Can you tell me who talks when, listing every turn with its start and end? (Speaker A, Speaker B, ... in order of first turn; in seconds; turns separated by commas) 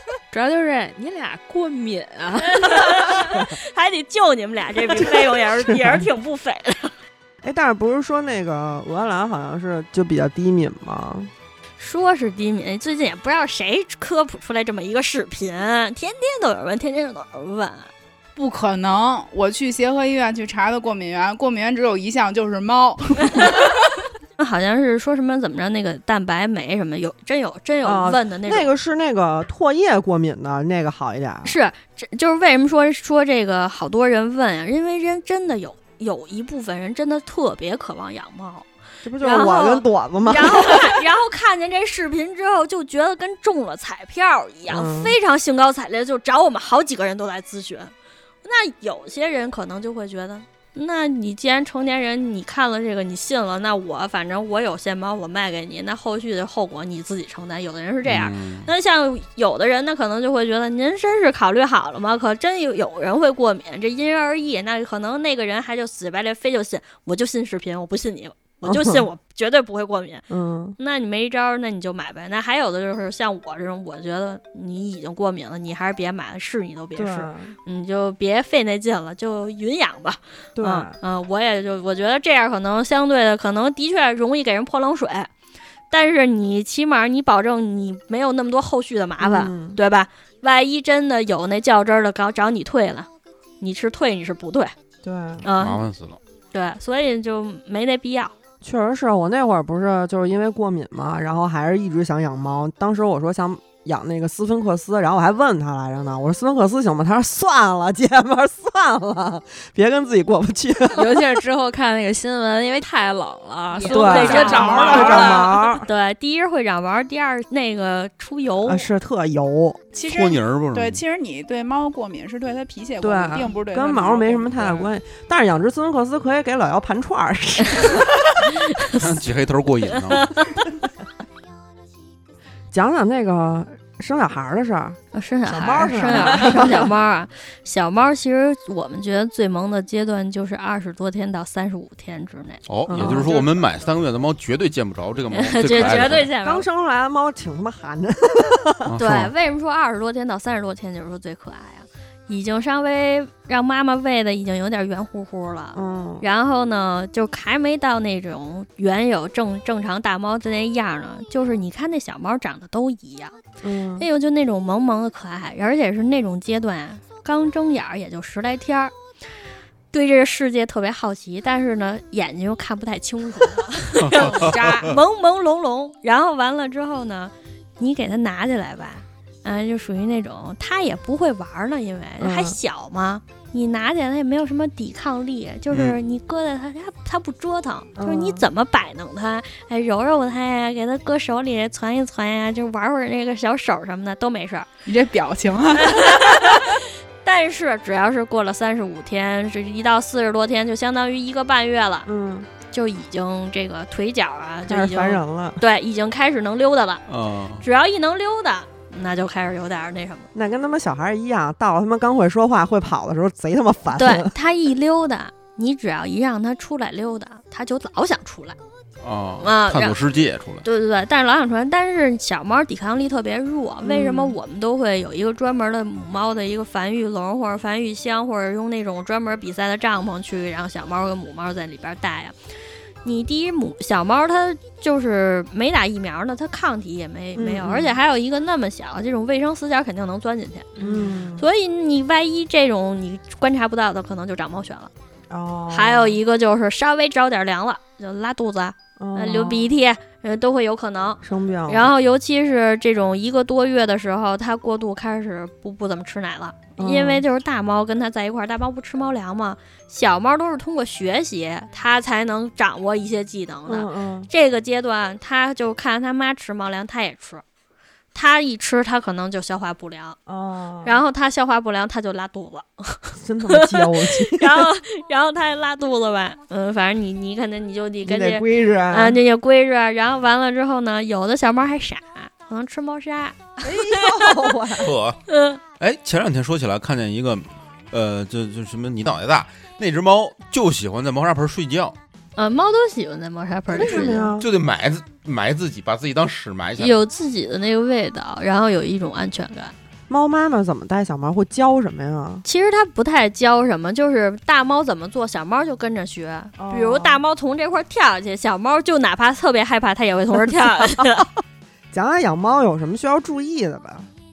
Speaker A: 0.3-3.1, Speaker B: 2.4-6.9, Speaker C: 4.9-6.0, Speaker C: 7.4-11.3, Speaker B: 11.8-17.9, Speaker D: 18.4-23.7, Speaker B: 24.4-28.7, Speaker C: 27.8-31.5, Speaker B: 31.4-38.7, Speaker C: 39.0-41.0, Speaker B: 39.2-47.9, Speaker C: 44.7-45.1, Speaker B: 48.4-70.2, Speaker E: 58.0-58.7, Speaker C: 68.6-69.1, Speaker C: 70.3-70.8, Speaker B: 70.8-85.3, Speaker C: 77.0-77.5, Speaker C: 80.5-81.0, Speaker B: 85.9-93.1, Speaker C: 89.2-89.8, Speaker B: 93.6-94.7, Speaker C: 95.0-95.5, Speaker B: 95.4-95.8, Speaker E: 95.6-96.2, Speaker B: 96.5-98.3, Speaker C: 98.6-111.4, Speaker A: 110.9-115.5, Speaker B: 113.7-118.9, Speaker C: 113.9-115.9, Speaker D: 114.0-115.5, Speaker C: 118.6-119.8, Speaker D: 119.9-124.9, Speaker E: 120.0-121.0, Speaker C: 123.0-128.5, Speaker B: 128.8-129.1, Speaker E: 128.9-130.3, Speaker B: 129.9-130.6, Speaker C: 132.7-136.9, Speaker B: 135.1-143.6, Speaker E: 142.7-146.3, Speaker C: 142.9-143.5, Speaker B: 145.3-146.7, Speaker C: 145.7-148.9, Speaker E: 148.9-149.3, Speaker B: 149.0-163.4, Speaker C: 155.7-156.2, Speaker C: 163.6-164.1, Speaker B: 164.0-168.9, Speaker B: 169.9-194.7, Speaker E: 174.0-174.8, Speaker A: 174.1-174.7, Speaker D: 174.6-174.9, Speaker C: 182.2-182.6, Speaker E: 185.7-186.0, Speaker C: 187.9-188.4, Speaker D: 194.9-196.4, Speaker B: 195.8-202.1, Speaker C: 202.1-202.5, Speaker B: 202.7-207.0, Speaker C: 204.7-205.6, Speaker E: 207.1-207.6, Speaker B: 207.6-210.3, Speaker C: 210.3-214.3, Speaker B: 213.9-218.6, Speaker E: 219.0-220.6, Speaker B: 219.4-220.0, Speaker B: 220.6-232.3, Speaker C: 223.8-224.4, Speaker B: 233.0-240.7, Speaker C: 237.4-238.0, Speaker A: 240.8-241.2, Speaker C: 240.8-241.5, Speaker B: 241.4-244.9, Speaker C: 245.3-246.2, Speaker B: 245.7-267.4, Speaker C: 249.0-249.8, Speaker C: 251.2-251.9, Speaker C: 256.8-257.2, Speaker C: 263.7-264.3, Speaker B: 268.1-270.2, Speaker C: 270.3-271.0, Speaker B: 270.8-284.5, Speaker C: 273.1-274.7, Speaker C: 278.1-279.2, Speaker C: 283.6-284.9, Speaker E: 284.8-285.2, Speaker B: 285.3-285.6, Speaker E: 285.8-291.9, Speaker B: 292.4-294.3, Speaker C: 293.7-294.5, Speaker E: 293.8-296.9, Speaker B: 296.8-299.7, Speaker C: 300.1-302.4, Speaker B: 302.4-311.3, Speaker C: 306.6-307.2, Speaker C: 311.9-314.1